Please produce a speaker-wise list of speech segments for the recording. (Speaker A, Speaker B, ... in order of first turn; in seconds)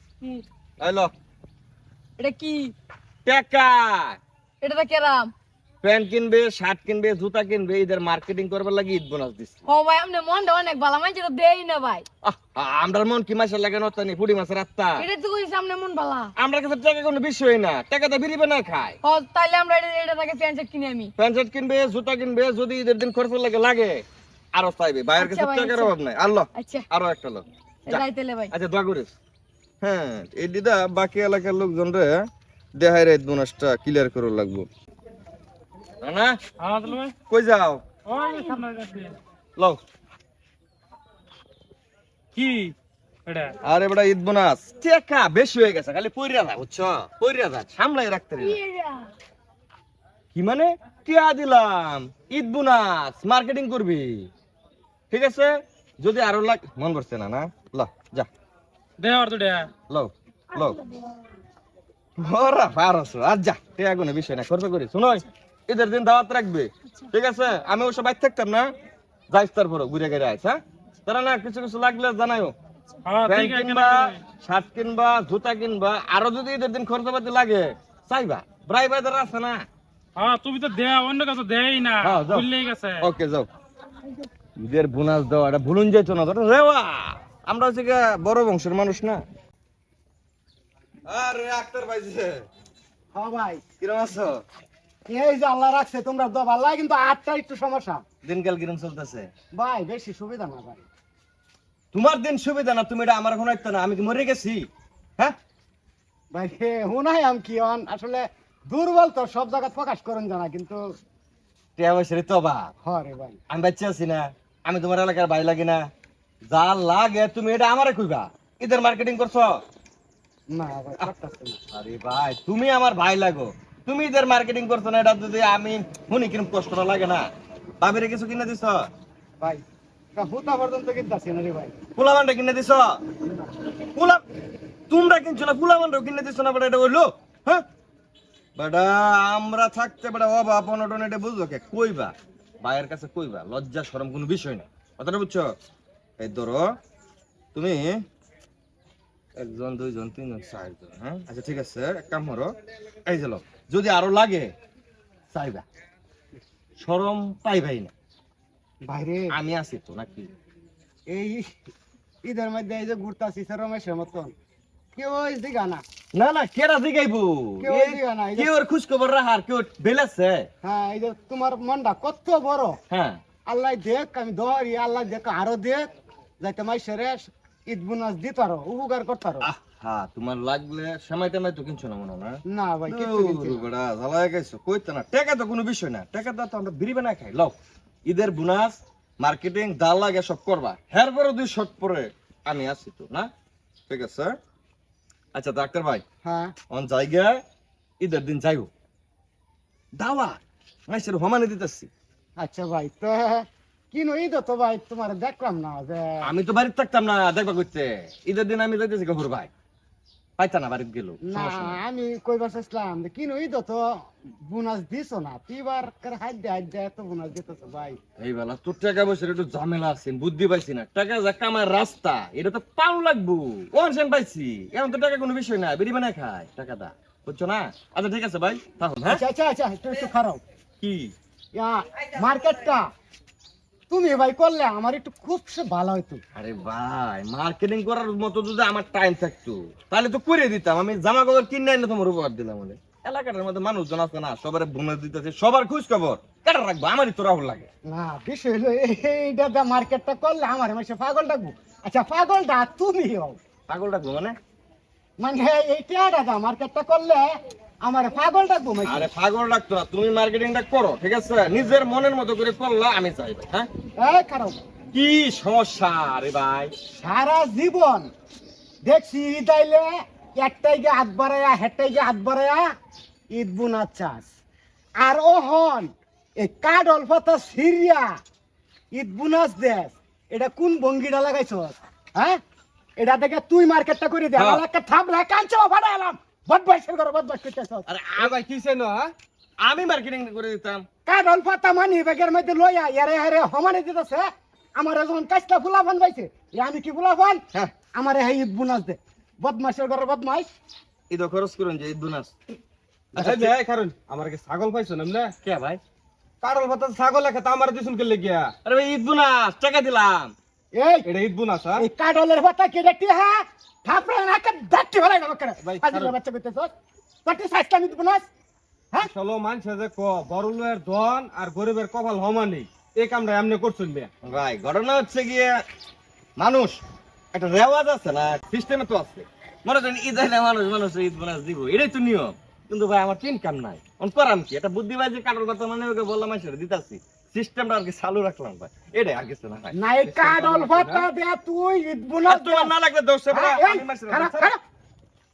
Speaker A: 0.8-1.1, 3.2-4.2, 5.8-9.5, 12.2-15.1, 16.4-19.0, 21.2-24.0, 24.5-29.1, 29.8-32.2, 32.8-34.7, 36.0-36.4, 37.3-37.8, 43.6-48.6, 50.3-54.3, 55.1-58.3, 59.9-60.8, 62.2-68.7, 69.3-72.5, 73.2-79.7, 82.0-82.5, 83.0-83.5, 84.6-89.2, 91.1-92.4, 93.8-94.4, 98.2-99.3, 101.9-104.7, 111.8-112.7, 113.5-115.8, 116.5-119.6, 121.7-127.2, 127.8-128.9, 131.9-132.9, 133.8-134.2, 134.9-137.6, 138.6-145.5, 146.2-146.7, 147.5-148.0, 149.4-152.5, 153.1-154.5, 155.3-155.7, 156.8-157.9, 159.3-160.3, 166.1-170.5, 172.9-173.2, 179.4-182.4, 182.9-187.5, 188.1-193.3, 193.9-194.4, 195.3-196.0, 196.7-197.4, 198.0-198.7, 200.0-201.9, 206.2-209.5, 210.4-211.8, 218.2-229.2, 230.8-231.1, 236.4-247.7, 253.7-254.4, 258.8-263.7, 264.9-266.7, 284.4-284.6, 287.9-288.4, 289.6-290.9, 301.1-302.3, 303.2-303.5, 305.4-305.8, 308.6-310.3, 324.2-325.5, 326.4-326.8, 327.3-339.8, 342.3-344.5
Speaker B: 2.2-2.7, 4.6-5.3, 9.7-12.1, 15.0-16.3, 19.0-21.1, 25.2-25.9, 26.6-26.9, 27.9-28.5, 38.2-38.7, 48.4-49.1
Speaker C: 36.6-37.1, 38.1-39.2, 42.4-42.7, 43.3-43.5, 59.0-59.7, 73.1-74.2, 80.2-83.0
Speaker D: 93.1-93.6, 95.1-98.0, 99.5-100.8, 106.3-110.8, 112.8-113.4, 120.5-121.6, 130.2-131.8, 158.8-159.3, 161.1-161.5, 162.2-164.3, 165.0-165.8, 167.6-168.5, 170.6-172.8, 173.5-175.9, 176.4-179.5, 182.5-183.6, 196.2-196.5, 202.4-206.2, 211.3-218.0, 229.1-230.4, 231.6-232.8, 233.9-236.2, 247.9-253.4, 255.2-257.3, 257.8-259.1, 264.0-264.6, 267.0-268.1, 268.8-269.9, 270.4-272.7, 273.3-274.3, 275.0-278.1, 278.9-282.4, 283.0-287.9, 291.1-297.4, 298.0-300.5, 310.8-311.1, 311.8-316.7, 317.2-318.3, 339.7-342.7, 343.3-344.6
Speaker E: 288.2-289.1, 303.2-305.3, 306.4-308.5, 311.1-311.9, 315.6-316.1, 319.0-324.1, 340.0-341.1